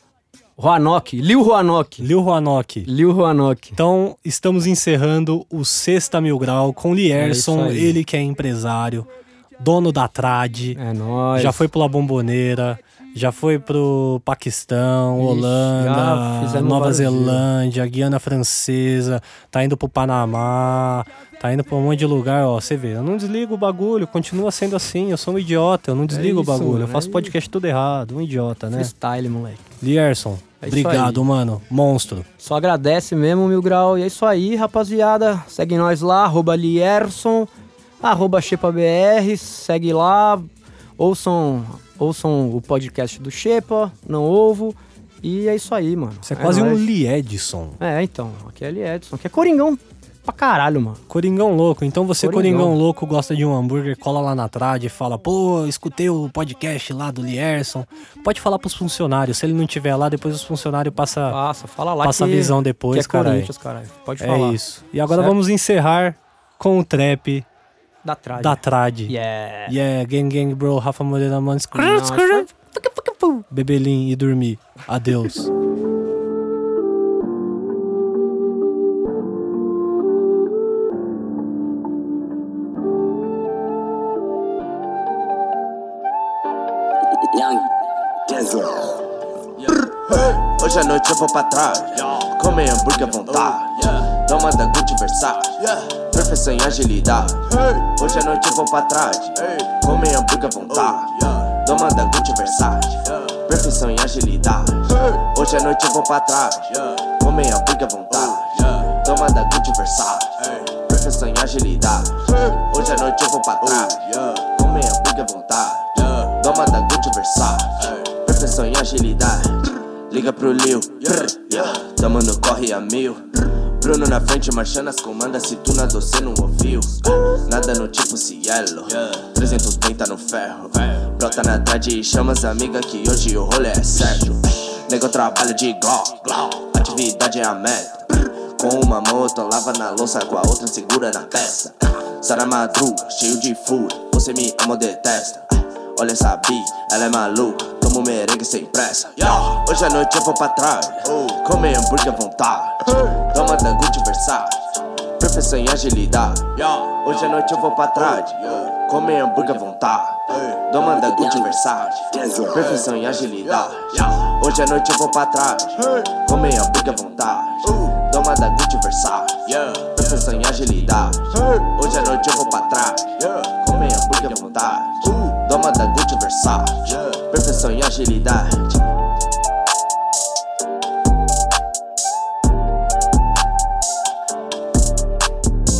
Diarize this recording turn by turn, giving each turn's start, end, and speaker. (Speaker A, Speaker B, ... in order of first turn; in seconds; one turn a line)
Speaker A: 0.6-2.1
Speaker B: 2.0-2.9
Speaker A: 2.8-3.8
Speaker B: 3.8-10.8
Speaker A: 7.2-8.0
Speaker A: 10.7-11.7
Speaker B: 11.3-28.9
Speaker A: 15.2-17.5
Speaker A: 26.1-27.3
Speaker A: 28.8-29.7
Speaker B: 29.8-32.2
Speaker A: 30.6-31.2
Speaker A: 32.4-37.5
Speaker A: 38.0-40.5
Speaker A: 41.0-46.8
Speaker B: 46.2-47.8
Speaker A: 47.8-51.0
Speaker B: 51.1-61.4
Speaker A: 52.2-52.8
Speaker A: 61.3-65.3
Speaker B: 62.0-63.5
Speaker B: 64.2-67.5
Speaker A: 68.0-69.8
Speaker B: 68.4-69.1
Speaker B: 69.7-75.5
Speaker A: 71.7-72.5
Speaker C: 89.7-178.8